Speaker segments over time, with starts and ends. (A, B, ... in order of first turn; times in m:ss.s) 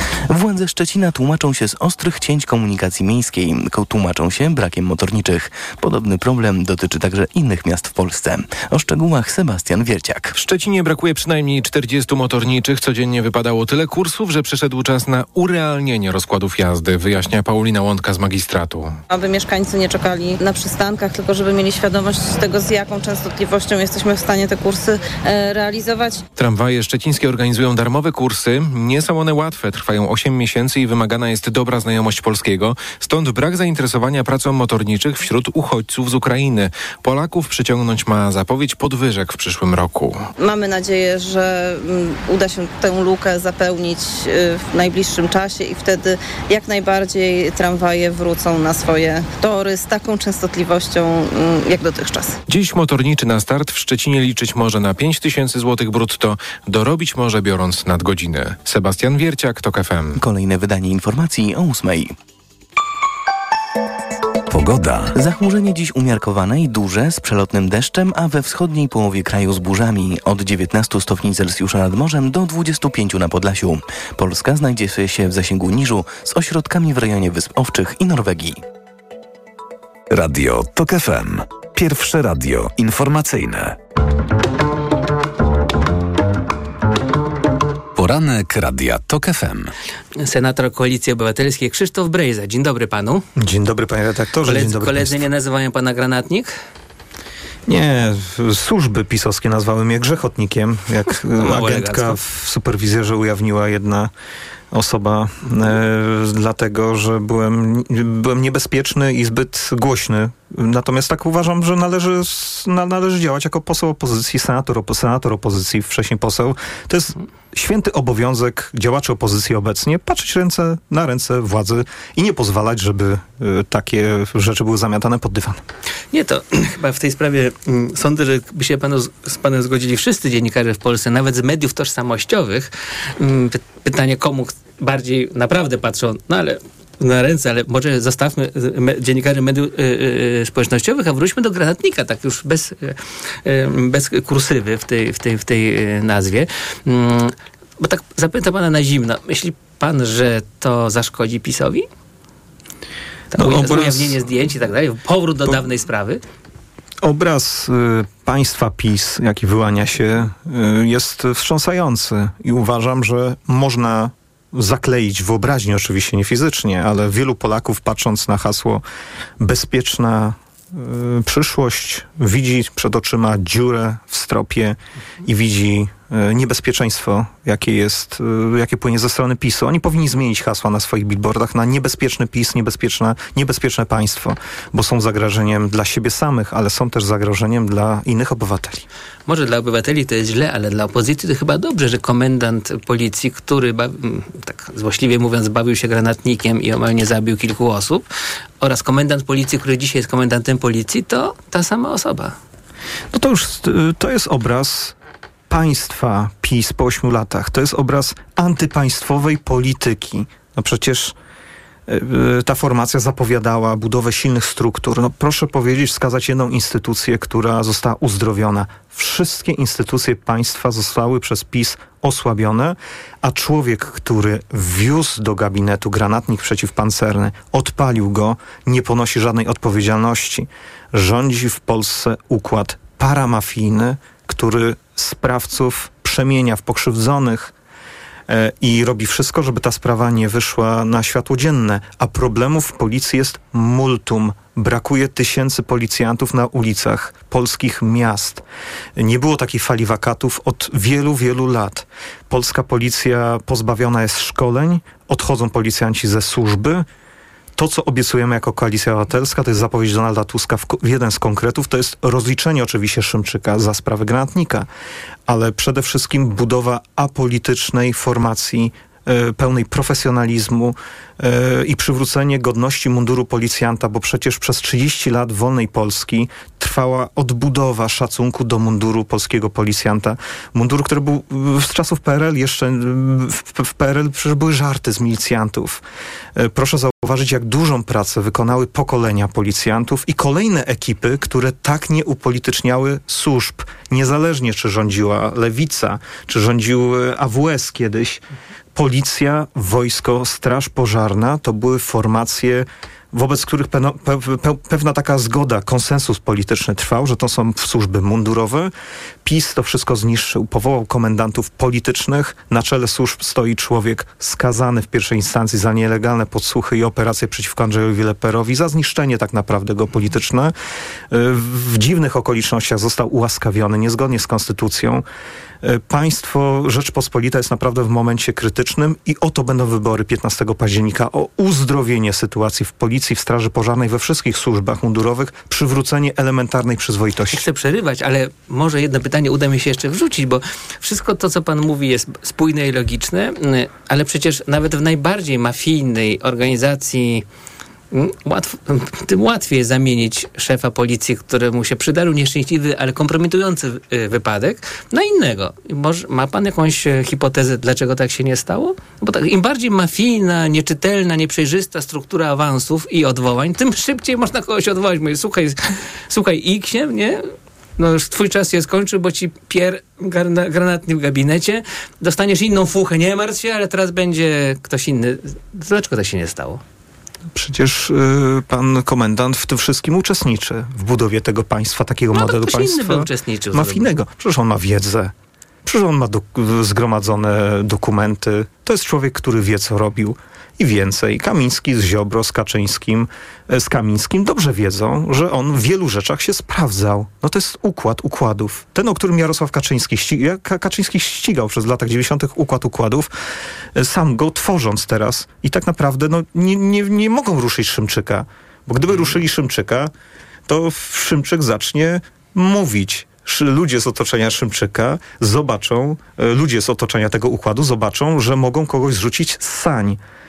0:00.3-0:10.3 A
0:10.4-0:18.9 B
0:19.1-0:26.2 C
0:26.4-0:40.2 B
0:40.4-0:52.4 C
0:52.5-1:00.2 B
1:00.1-1:02.1 A
1:04.5-1:05.1 D
1:05.1-1:18.6 A
1:20.1-1:23.8 D
1:28.0-1:29.7 D
1:30.2-1:33.2 E
1:33.4-1:35.2 F
1:34.4-1:36.5 E
1:37.7-1:44.1 F
1:41.4-1:42.2 E
1:44.7-2:05.6 F
2:06.1-2:31.8 E
2:33.3-2:36.2 E
2:33.4-2:34.2 F
2:37.0-2:48.8 F
2:49.4-3:08.8 F
3:09.3-3:18.0 E
3:18.6-3:22.3 E
3:23.1-3:24.9 F
3:25.5-3:31.1 F
3:31.9-3:57.5 F
3:58.3-4:08.4 F
4:09.0-4:16.8 F
4:17.6-4:24.7 F
4:25.3-4:45.8 F
4:46.4-4:58.2 F
4:58.7-5:08.7 F
5:09.2-5:20.5 F
5:21.1-5:25.0 F
5:25.6-5:37.4 F
5:37.3-5:47.2 E
5:47.9-6:16.6 E
6:17.3-6:25.1 F
6:22.1-6:23.9 E
6:25.6-6:43.1 F
6:43.8-6:49.9 F
6:50.5-7:00.0 F